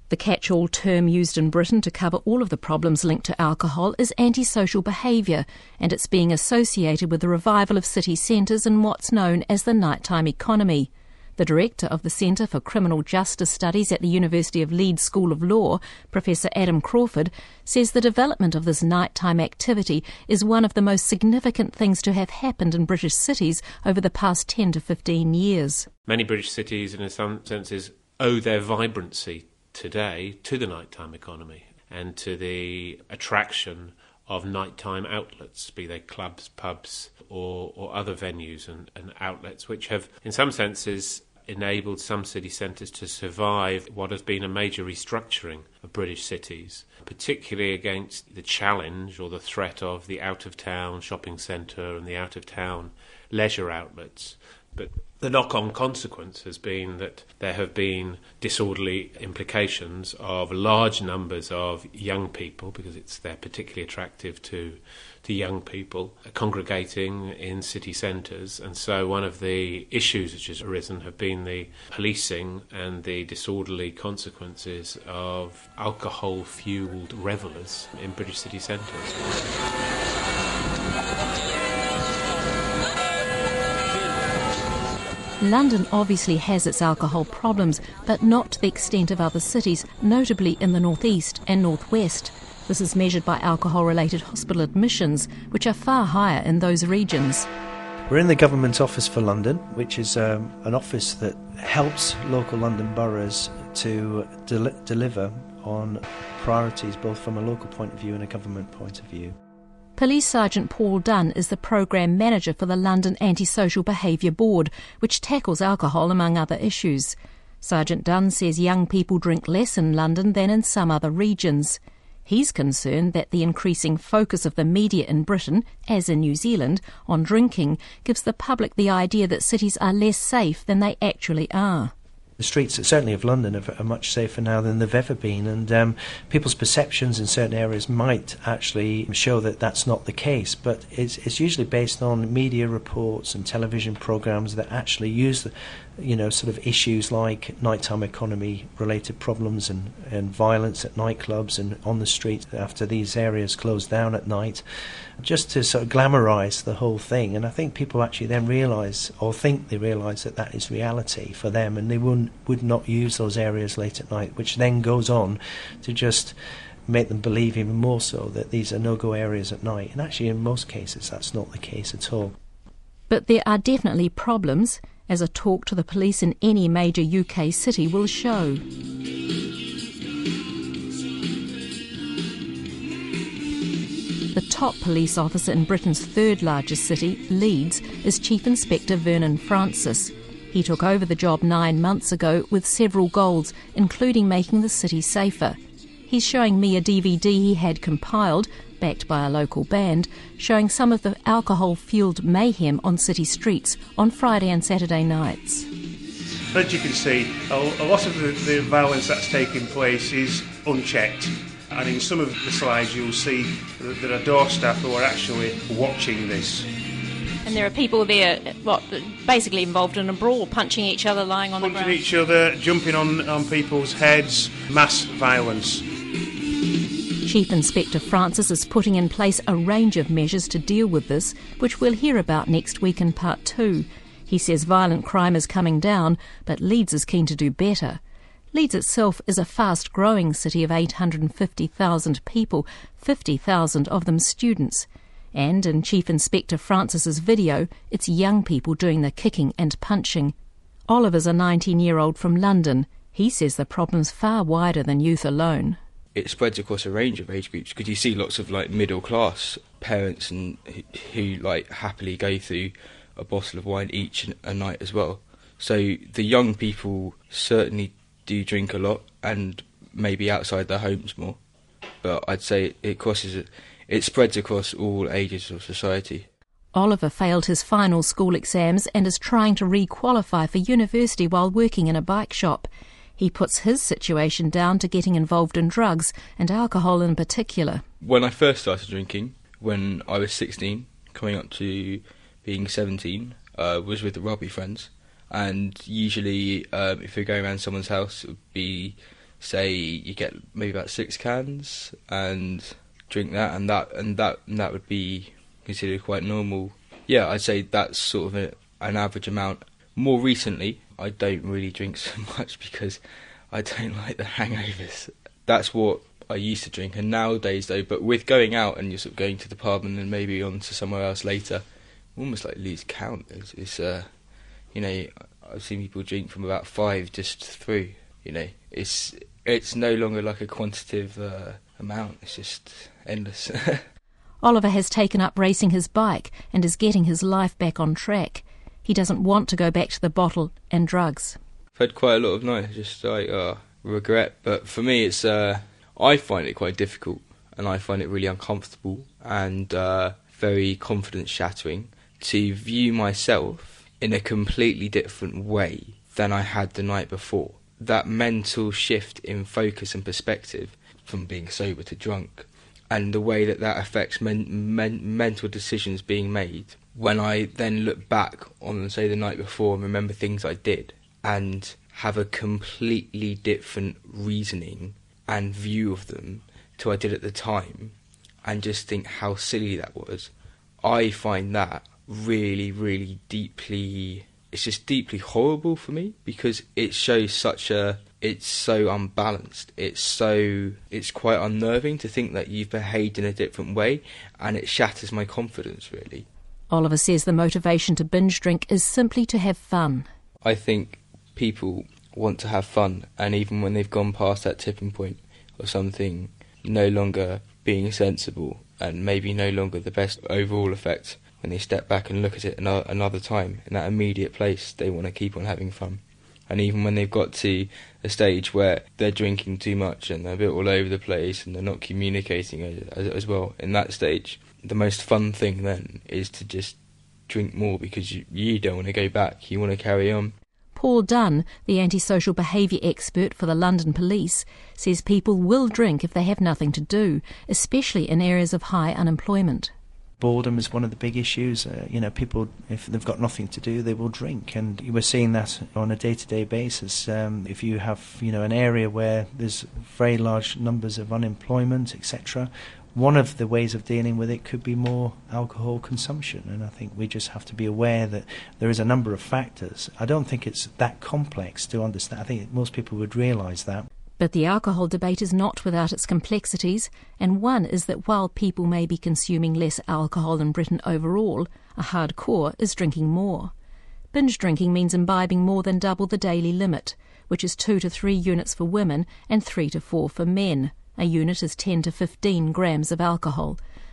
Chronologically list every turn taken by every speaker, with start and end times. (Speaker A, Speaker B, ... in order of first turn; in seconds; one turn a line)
Speaker A: 0.1-25.9
Speaker B: 26.1-79.5
Speaker A: 85.4-97.5
Speaker C: 98.1-109.4
Speaker A: 110.0-131.9
Speaker C: 132.4-154.6
Speaker C: 155.2-172.3
Speaker A: 173.1-178.6
Speaker A: 184.3-195.6
Speaker A: 196.1-205.7
Speaker D: 206.5-216.7
Speaker A: 217.4-222.0
Speaker D: 221.6-225.9
Speaker A: 227.2-238.0
Speaker A: 238.5-250.3
Speaker A: 250.9-255.8
Speaker E: 256.1-271.4
Speaker E: 272.0-276.3
Speaker A: 276.7-287.8
Speaker E: 288.0-321.6
Speaker E: 322.1-324.1
Speaker E: 324.7-333.9
Speaker A: 334.4-341.4
Speaker E: 341.8-396.3
Speaker A: 396.7-400.1
Speaker E: 400.4-426.8
Speaker E: 427.3-430.4
Speaker A: 430.8-439.7
Speaker C: 440.2-463.9
Speaker A: 464.2-473.5
Speaker A: 474.1-483.6